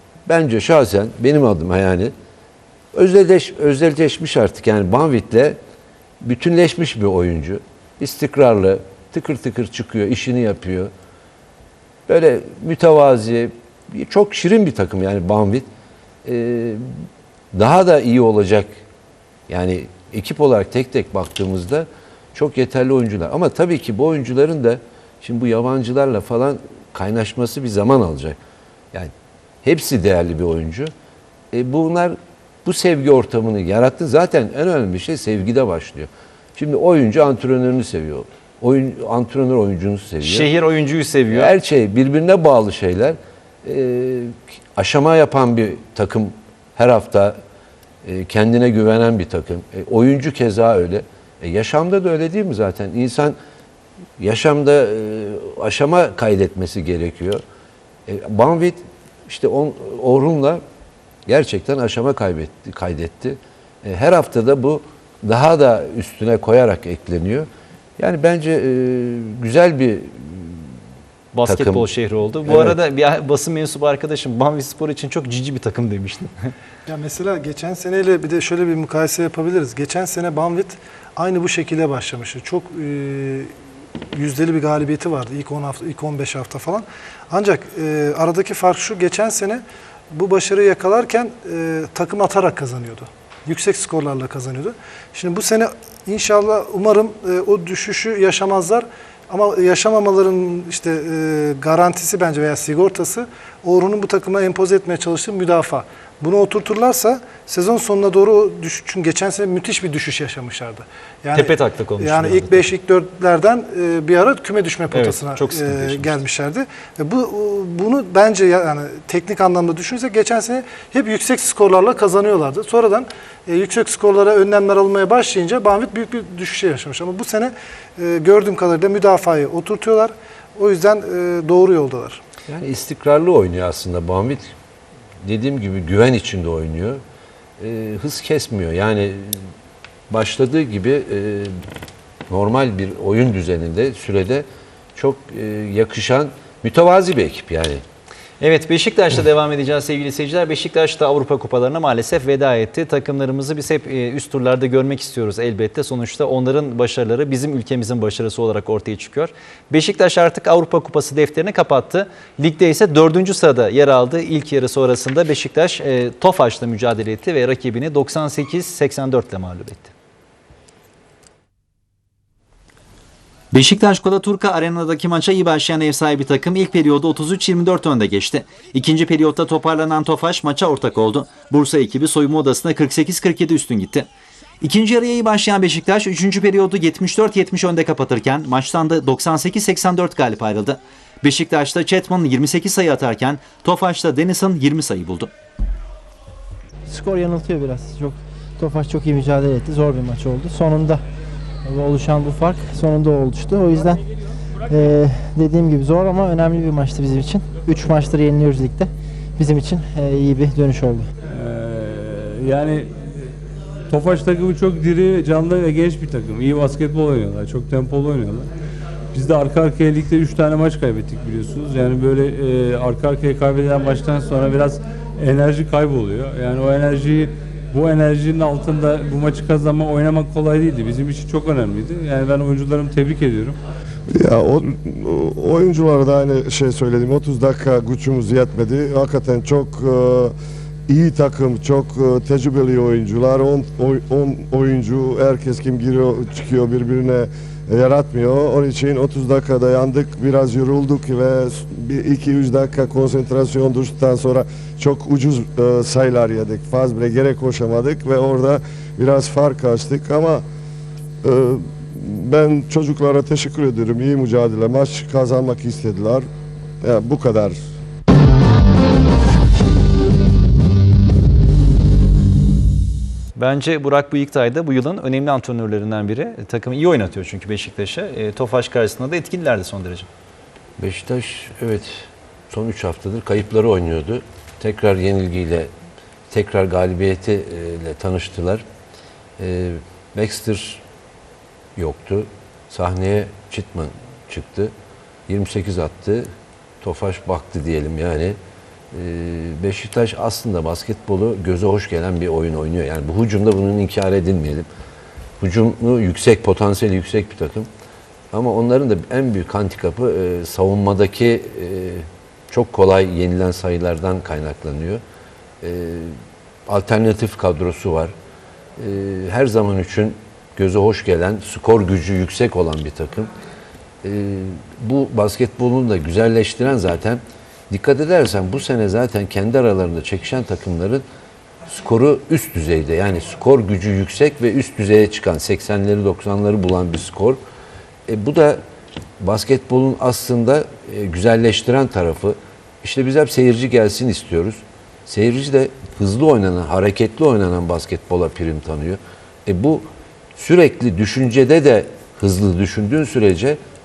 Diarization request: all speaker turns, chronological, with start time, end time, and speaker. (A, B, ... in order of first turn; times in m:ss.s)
0:00.3-0:02.1 A
0:02.9-0:05.6 A
0:06.2-0:10.9 A
0:12.1-0:15.7 A
0:16.2-0:16.9 A
0:17.5-0:18.7 A
0:19.5-0:28.4 A
0:29.6-0:30.9 A
0:31.5-0:40.5 A
0:40.2-0:41.5 B
0:41.3-0:47.4 A
0:48.0-0:53.4 A
0:54.2-0:57.4 A
0:58.1-1:00.6 A
1:01.3-1:07.5 A
1:08.0-1:10.7 A
1:11.3-1:16.5 B
1:11.4-1:11.9 A
1:12.5-1:12.8 A
1:16.9-1:23.5 C
1:24.2-1:29.6 C
1:30.1-1:51.4 C
1:51.4-1:52.6 B
1:52.0-2:12.2 C
1:54.9-1:56.2 B
2:12.5-2:14.5 A
2:15.2-2:17.0 A
2:17.6-2:19.5 A
2:20.1-2:21.6 A
2:22.3-2:24.4 A
2:25.0-2:27.8 A
2:28.4-2:49.9 B
2:53.5-3:04.1 B
3:04.6-3:15.3 B
3:16.9-3:21.0 D
3:21.6-3:24.0 D
3:24.7-3:31.1 D
3:31.3-3:32.9 E
3:33.9-3:38.5 E
3:39.1-3:53.6 E
3:54.1-4:00.3 F
4:00.9-4:20.4 F
4:21.2-4:26.2 F
4:26.8-4:27.6 F
4:33.4-4:40.1 B
4:40.8-4:45.7 A
4:46.3-4:48.6 A
4:49.4-4:50.8 A
4:51.8-4:54.7 A
4:55.3-4:56.3 A
4:56.8-4:58.4 A
4:58.9-5:04.7 A
5:05.4-5:07.7 A
5:08.3-5:15.0 A
5:15.6-5:18.1 A
5:18.8-5:23.3 A
5:24.0-5:31.0 A
5:31.7-5:37.4 A
5:38.1-5:38.6 A
5:39.2-5:53.6 A